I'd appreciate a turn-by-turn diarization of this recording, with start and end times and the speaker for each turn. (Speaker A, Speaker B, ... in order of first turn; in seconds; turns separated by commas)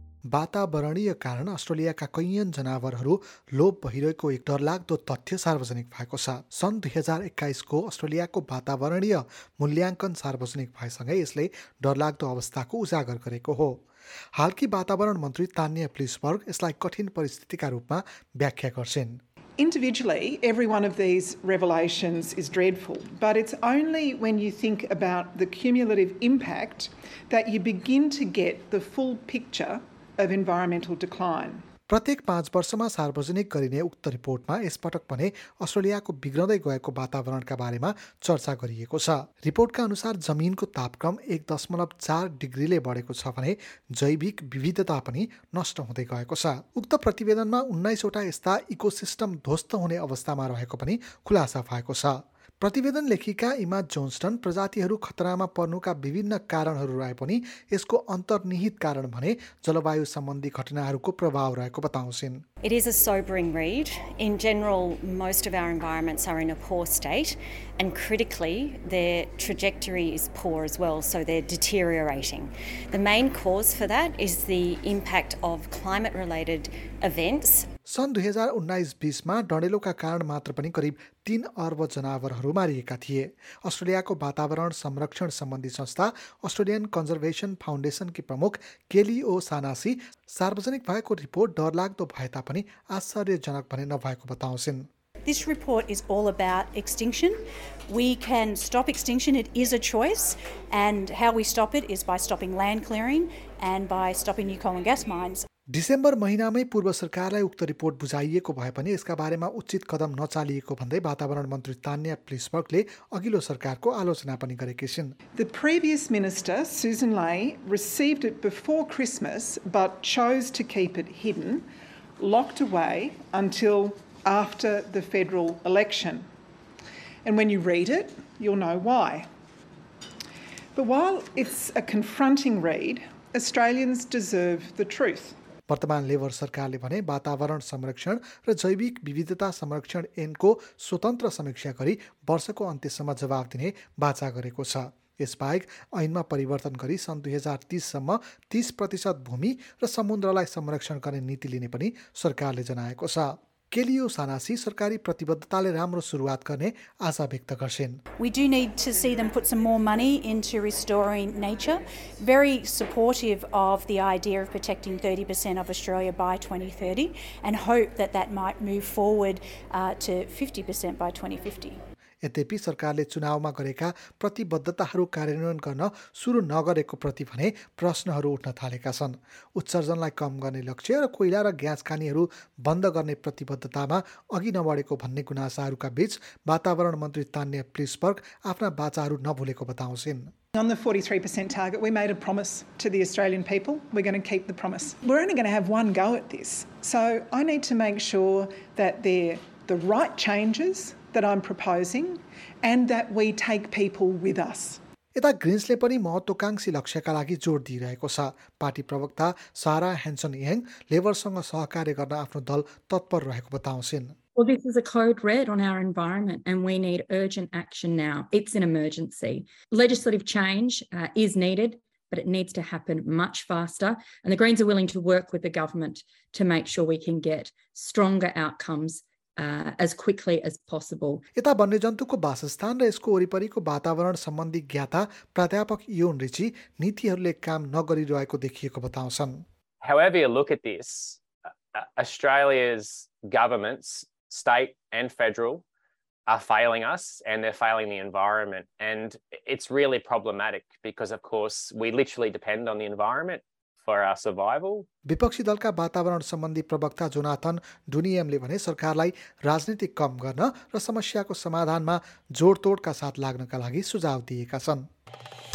Speaker A: 0.3-13.8, Speaker A: 14.3-19.2, Speaker B: 19.6-31.6, Speaker A: 31.9-62.4, Speaker C: 62.6-77.7, Speaker A: 77.9-94.9, Speaker D: 95.2-105.5, Speaker A: 105.7-115.2, Speaker B: 115.3-121.7, Speaker B: 122.2-126.2, Speaker B: 127.2-129.3, Speaker B: 130.7-135.3, Speaker A: 135.7-158.0, Speaker D: 158.2-171.8, Speaker A: 172.2-190.3, Speaker B: 190.5-204.8, Speaker A: 205.2-214.1, Speaker E: 214.3-231.2, Speaker A: 231.3-239.4, Speaker F: 239.8-241.2, Speaker F: 241.7-245.6, Speaker F: 246.3-254.8, Speaker A: 255.1-264.9